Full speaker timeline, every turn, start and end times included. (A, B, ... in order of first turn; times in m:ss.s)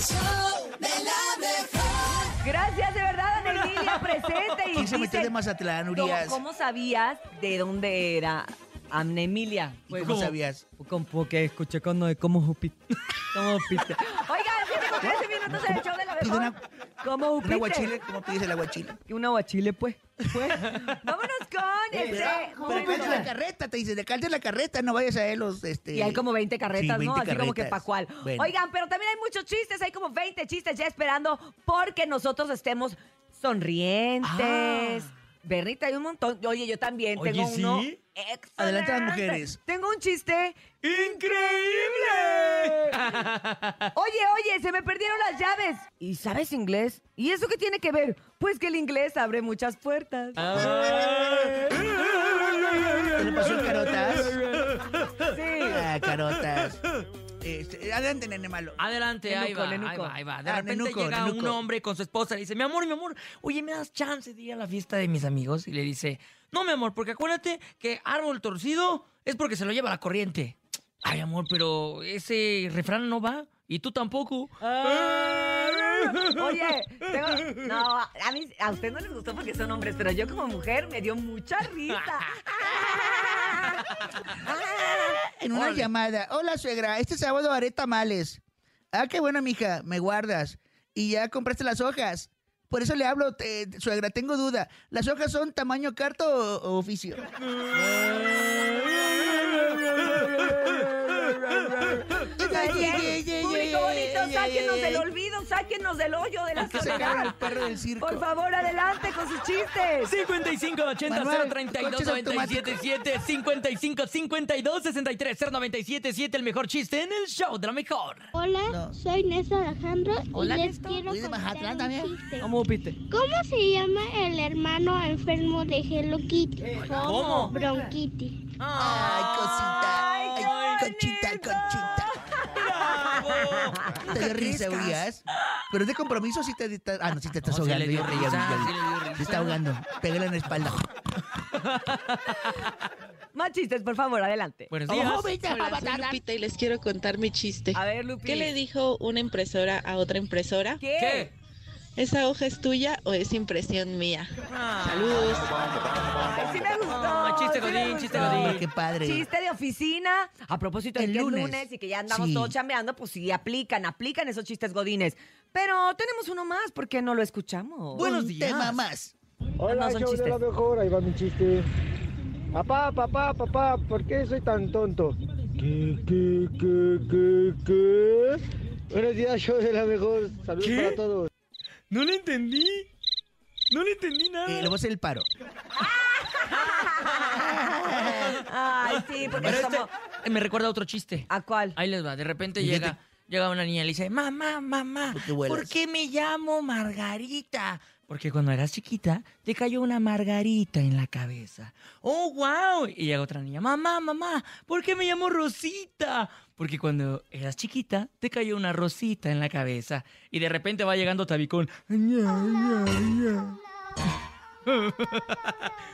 0:01.0-0:01.4 A
0:02.3-0:05.3 B
0:03.9-0:04.2 C
0:04.7-0:06.4 A
0:05.9-0:10.2 B
0:09.9-0:10.7 A
0:09.9-0:10.3 C
0:10.8-0:12.8 B
0:13.3-0:17.9 B
0:15.1-0:16.6 A
0:17.4-0:19.0 A
0:19.1-0:23.3 B
0:20.6-0:21.0 C
0:22.0-0:26.2 A
0:22.7-0:23.1 C
0:25.9-0:43.0 B
0:26.7-0:28.5 A
0:34.2-0:35.1 C
0:37.2-0:38.0 C
0:38.6-0:39.6 A
0:40.8-0:43.9 C
0:44.0-0:50.6 B
0:50.4-0:55.4 C
0:51.4-0:52.5 B
0:53.2-0:54.4 A
0:55.3-0:55.8 B
0:55.7-0:56.8 A
0:57.4-0:58.8 A
0:58.8-1:16.4 C
0:59.2-1:00.2 B
1:00.4-1:01.6 A
1:14.6-1:25.2 B
1:25.2-1:28.4 A
1:25.5-1:25.9 C
1:28.9-1:37.2 A
1:37.6-1:40.6 C
1:38.9-1:50.1 B
1:42.4-1:45.1 A
1:46.6-1:47.3 C
1:46.7-1:48.3 A
1:50.0-1:58.3 C
1:51.1-1:52.8 A
1:58.3-2:02.5 D
1:58.7-1:59.0 A
2:00.3-2:01.1 C
2:01.0-2:02.2 A
2:02.4-2:02.8 B
2:02.4-2:03.0 C
2:03.1-2:08.4 D
2:06.6-2:07.9 B
2:06.7-2:07.6 C
2:08.6-2:10.8 C
2:08.8-2:12.2 A
2:09.9-2:14.0 B
2:12.4-2:15.1 C
2:14.0-2:20.9 A
2:17.4-2:19.6 C
2:21.5-2:22.7 C
2:23.3-2:24.7 B
2:24.7-2:25.4 C
2:24.9-2:26.2 A
2:25.4-2:30.8 E
2:27.7-2:28.6 B
2:30.8-2:31.3 B
2:31.0-2:31.3 C
2:32.0-2:34.3 E
2:34.5-2:35.2 C
2:34.8-2:36.1 E
2:36.0-2:48.1 B
2:36.9-2:38.6 C
2:38.1-2:39.3 A
2:41.0-2:42.6 A
2:48.0-2:48.8 C
2:48.0-2:49.1 A
2:49.6-2:51.7 F
2:49.6-2:50.4 B
2:52.5-2:58.4 F
2:58.9-3:01.3 F
3:00.6-3:01.0 C
3:01.9-3:02.9 C
3:03.7-3:04.7 C
3:04.5-3:05.3 A
3:05.8-3:07.3 B
3:06.6-3:07.4 C
3:07.3-3:08.4 A
3:08.0-3:33.6 C
3:08.4-3:09.9 B
3:09.3-3:09.7 A
3:11.3-3:11.8 B
3:12.6-3:13.0 A
3:15.1-3:15.7 A
3:34.7-3:35.7 C